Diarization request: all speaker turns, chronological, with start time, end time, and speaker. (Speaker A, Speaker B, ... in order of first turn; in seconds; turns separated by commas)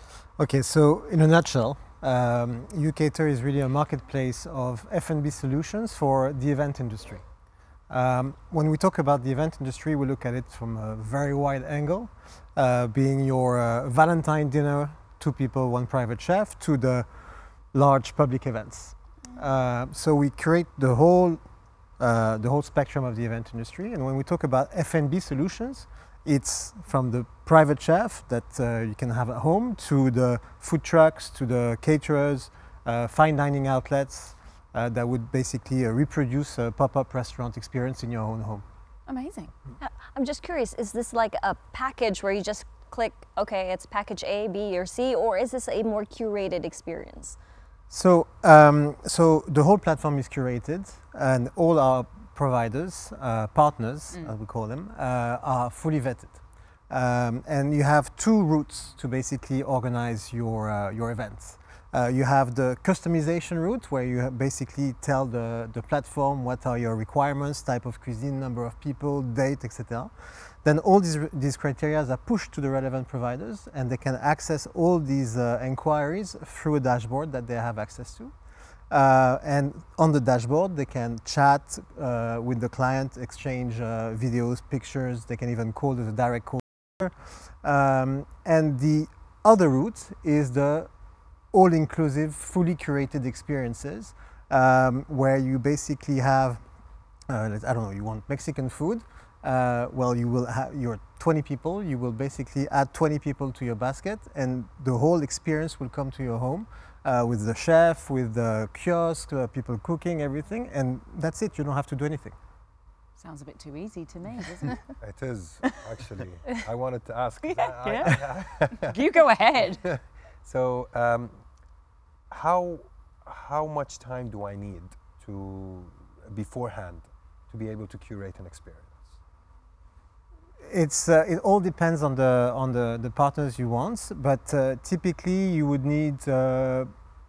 Speaker A: 0.4-7.2, Speaker A: 7.9-21.4, Speaker A: 22.0-38.6, Speaker B: 39.1-39.5, Speaker C: 39.8-47.4, Speaker A: 47.9-78.3, Speaker A: 78.9-90.9, Speaker A: 91.5-96.6, Speaker A: 97.3-112.4, Speaker B: 113.2-114.8, Speaker D: 115.0-118.9, Speaker B: 117.4-119.8, Speaker D: 119.8-121.4, Speaker D: 122.3-129.2, Speaker A: 130.7-136.9